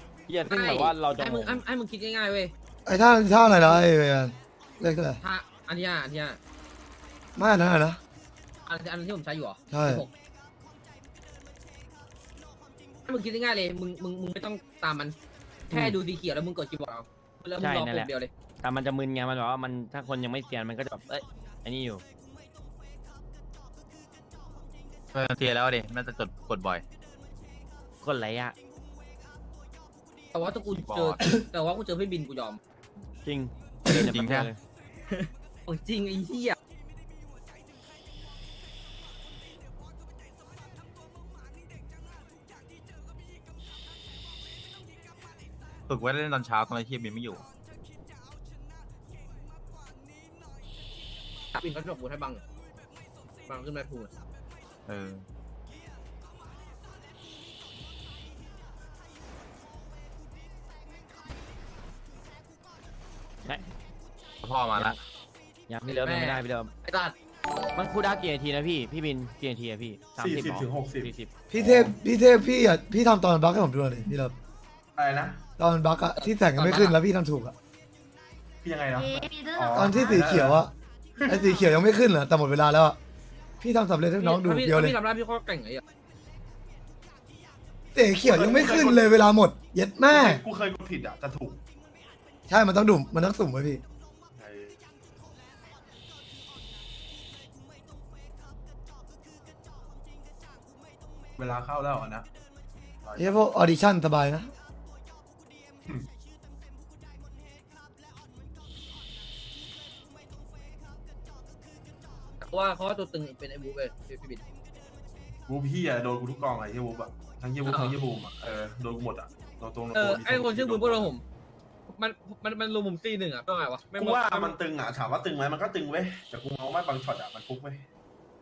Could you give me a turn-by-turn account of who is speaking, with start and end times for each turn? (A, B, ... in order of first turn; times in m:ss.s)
0:00.3-0:01.6 A
0:00.4-0:02.5 B
0:02.8-0:05.2 C
0:05.2-0:06.4 B
0:07.4-0:08.0 C
0:08.6-0:10.1 B
0:09.7-0:10.0 C
0:13.1-0:15.2 B
0:15.7-0:18.3 B
0:15.7-0:16.0 A
0:17.6-0:22.0 A
0:25.1-0:26.8 D
0:28.0-0:28.5 A
0:30.3-0:32.6 B
0:30.7-0:31.3 D
0:33.2-0:34.6 A
0:33.9-0:34.5 D
0:35.1-0:36.6 B
0:45.9-0:47.4 D
0:51.5-0:52.4 B
0:53.5-0:54.1 B
0:54.8-0:55.2 D
1:04.4-1:04.9 D
1:05.7-1:06.8 A
1:05.8-1:07.1 B
1:07.7-1:11.3 A
1:10.2-1:11.1 E
1:11.5-1:14.4 C
1:11.6-1:11.9 E
1:15.0-1:15.4 E
1:15.6-1:17.5 C
1:16.2-1:16.9 B
1:18.6-1:20.6 E
1:19.7-1:20.7 C
1:21.2-1:21.5 E
1:21.3-1:23.0 C
1:23.6-1:25.0 C
1:24.2-1:25.8 B
1:27.9-1:30.4 C
1:28.2-1:29.1 E
1:30.1-1:31.6 E
1:32.5-1:33.8 C
1:34.3-1:34.8 E
1:41.4-1:42.3 E
1:43.0-1:43.4 E
1:43.2-1:44.5 C
1:52.4-1:54.4 B
1:55.5-2:01.1 E
1:57.6-1:58.0 B
1:59.9-2:01.2 B
2:01.9-2:04.6 B
2:03.9-2:07.8 E